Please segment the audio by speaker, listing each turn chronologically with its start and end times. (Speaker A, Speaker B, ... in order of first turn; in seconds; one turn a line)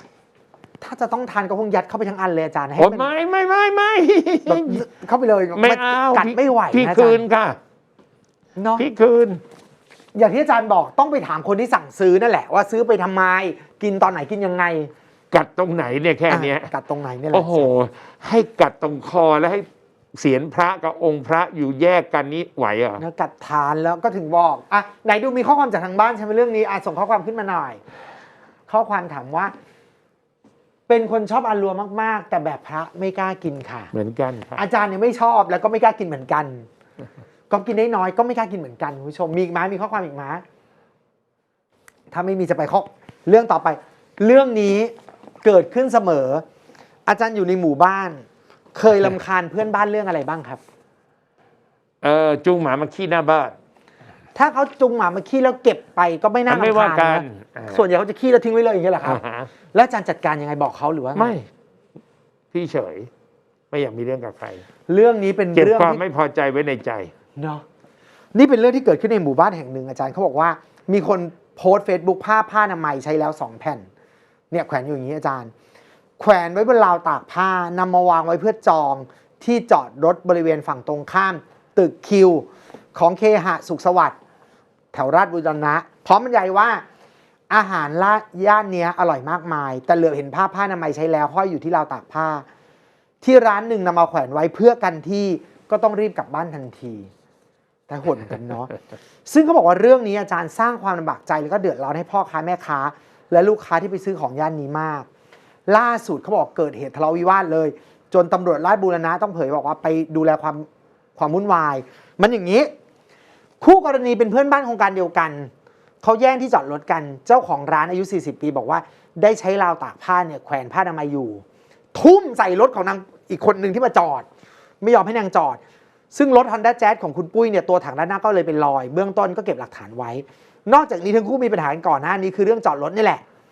Speaker A: 0.8-3.1
Speaker B: 2.8-4.8
Speaker A: 4.5-7.2
Speaker B: 5.5-7.6
Speaker A: 8.6-8.8
Speaker B: 8.8-9.4
Speaker A: 10.1-14.9
Speaker B: 15.3-16.7
Speaker A: 16.3-17.7
Speaker B: 17.3-23.0
Speaker A: 23.0-27.8
Speaker A: 28.7-29.5
Speaker A: 30.9-33.9
Speaker B: 33.9-34.6
Speaker A: 34.5-36.7
Speaker A: 37.5-40.4
Speaker A: 42.1-46.4
Speaker A: 47.0-50.6
Speaker B: 52.0-53.5
Speaker A: 54.4-59.2
Speaker B: 56.5-57.8
Speaker B: 59.0-59.5
Speaker A: 59.7-61.4
Speaker B: 61.1-61.5
Speaker B: 62.5-63.1
Speaker B: 63.7-64.6
Speaker A: 64.9-66.0
Speaker B: 65.5-67.1
Speaker A: 67.3-67.6
Speaker A: 68.3-73.9
Speaker A: 74.5-75.5
Speaker A: 76.2-84.2
Speaker A: 84.9-86.8
Speaker A: 87.5-92.5
Speaker A: 93.2-97.1
Speaker A: 97.9-98.7
Speaker A: 99.3-105.1
Speaker A: 105.7-112.7
Speaker A: 113.6-115.5
Speaker A: 116.0-124.3
Speaker A: 124.8-125.6
Speaker A: 126.1-133.2